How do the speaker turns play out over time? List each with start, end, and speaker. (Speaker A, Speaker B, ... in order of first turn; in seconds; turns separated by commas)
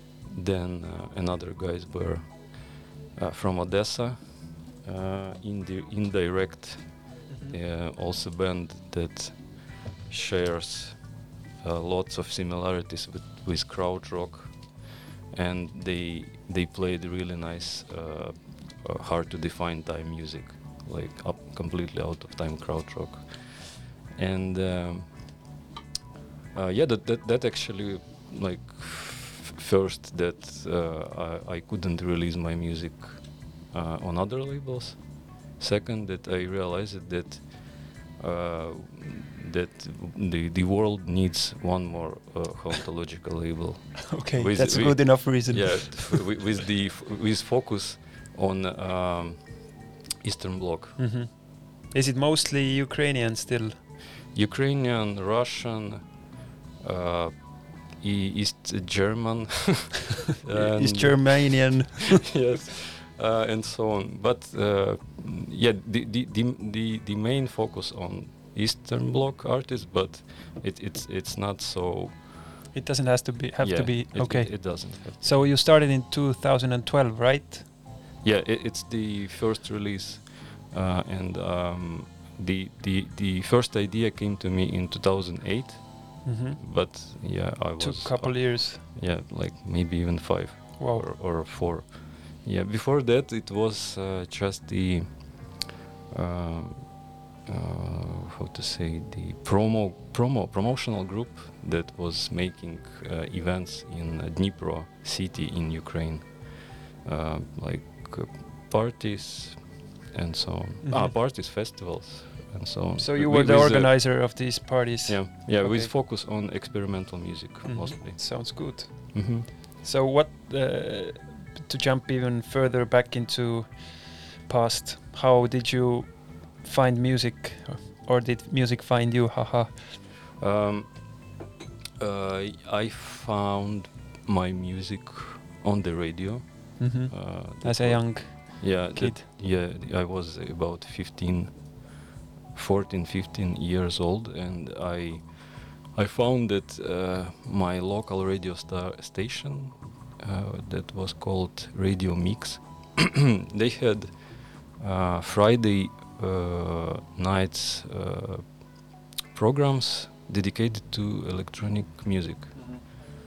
Speaker A: 0.3-25.3, Speaker B: 7.3-7.6, Speaker A: 26.5-51.0, Speaker B: 44.1-46.4, Speaker B: 51.0-53.7, Speaker A: 54.3-56.2, Speaker A: 56.8-72.4, Speaker B: 60.5-62.3, Speaker B: 72.7-77.7, Speaker A: 73.6-75.3, Speaker A: 78.2-95.6, Speaker B: 86.2-87.1, Speaker B: 87.8-88.8, Speaker B: 90.8-91.1, Speaker A: 96.1-114.5, Speaker B: 110.8-111.2, Speaker B: 113.0-115.9, Speaker A: 115.0-119.5, Speaker B: 117.6-129.8, Speaker A: 130.4-131.3, Speaker A: 132.0-141.9, Speaker B: 136.8-139.2, Speaker A: 142.5-162.9, Speaker B: 162.5-162.8